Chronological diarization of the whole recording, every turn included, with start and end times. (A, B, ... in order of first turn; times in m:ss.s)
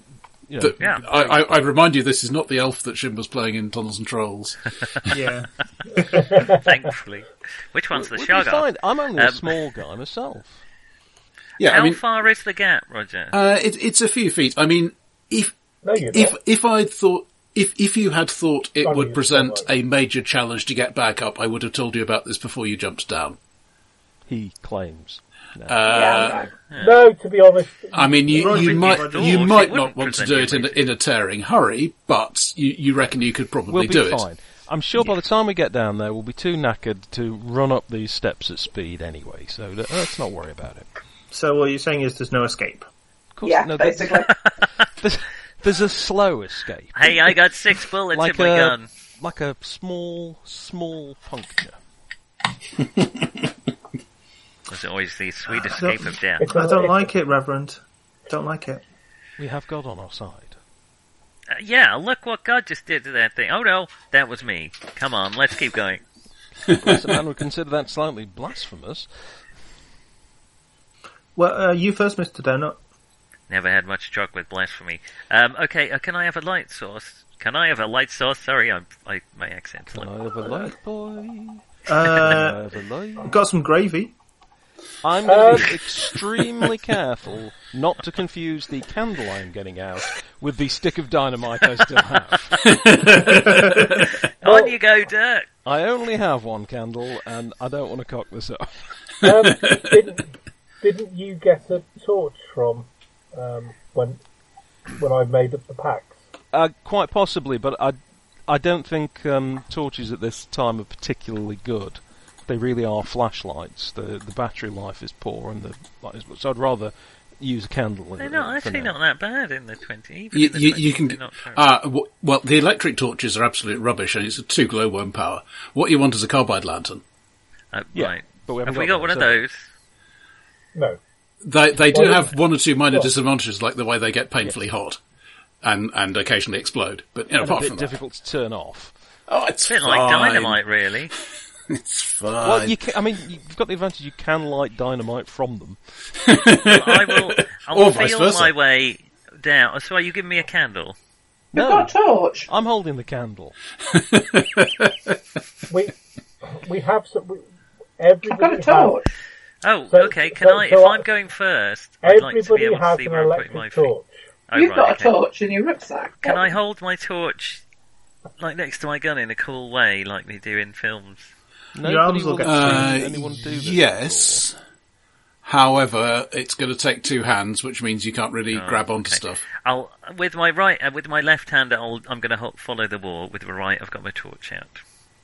0:00.5-0:01.5 A
0:00.6-0:05.2 B
0:05.1-0:06.1 C
0:06.0-0:06.7 D
0:06.2-0:09.5 E
0:07.9-0:10.6 A
0:11.6-0:12.0 B
0:11.6-0:13.4 E
0:13.3-0:23.4 B
0:15.8-0:16.4 D
0:18.8-0:19.7 D
0:24.3-0:25.9 A
0:25.7-0:26.5 B
0:25.9-0:26.5 F
0:26.7-0:27.0 E
0:26.8-0:28.8 D
0:27.9-0:34.2 B
0:28.3-0:29.6 C
0:28.5-0:30.8 E
0:33.7-0:40.9 A
0:41.3-0:42.9 C
0:43.4-0:44.2 A
0:43.4-0:44.3 F
0:45.0-0:47.3 A
0:47.0-0:48.9 E
0:48.1-0:51.8 A
0:54.7-0:56.5 E
0:55.5-0:58.8 C
0:56.4-0:57.1 D
0:59.4-1:00.6 A
1:01.5-1:06.0 E
1:06.7-1:09.1 A
1:06.7-1:07.0 B
1:11.4-1:12.8 C
1:13.5-1:20.1 E
1:19.9-1:23.4 A
1:21.9-1:22.6 C
1:23.2-1:24.2 C
1:25.0-1:32.7 A
1:25.2-1:25.8 D
1:32.6-1:33.7 B
1:33.6-1:35.5 E
1:34.4-1:34.7 D
1:35.6-1:38.8 A
1:39.2-1:44.2 D
1:44.9-1:46.2 D
1:46.5-1:59.0 A
1:58.2-2:01.6 E
2:00.3-2:07.0 B
2:07.7-2:09.6 E
2:07.9-2:09.4 A
2:11.4-2:15.0 B
2:11.9-2:12.3 D
2:15.6-2:17.9 B
2:17.4-2:18.9 A
2:19.3-2:20.6 B
2:19.7-2:21.1 E
2:21.7-2:22.8 B
2:22.4-2:25.8 A
2:26.2-2:28.5 B
2:26.6-2:31.0 E
2:31.5-2:32.5 F
2:31.5-2:31.9 A
2:32.5-2:33.6 A
2:33.9-2:35.2 B
2:35.7-2:36.0 D
2:36.5-2:37.4 D
2:38.0-2:39.0 D
2:38.3-2:39.1 F
2:39.6-2:43.9 E
2:39.9-2:41.0 D
2:42.0-2:44.1 D
2:44.5-2:45.2 E
2:44.5-2:46.5 F
2:46.2-2:47.6 E
2:48.4-2:51.3 E
2:51.8-2:54.4 A
2:51.8-2:53.0 C
2:52.4-2:54.6 B
2:55.4-2:59.4 B
2:58.5-3:04.8 E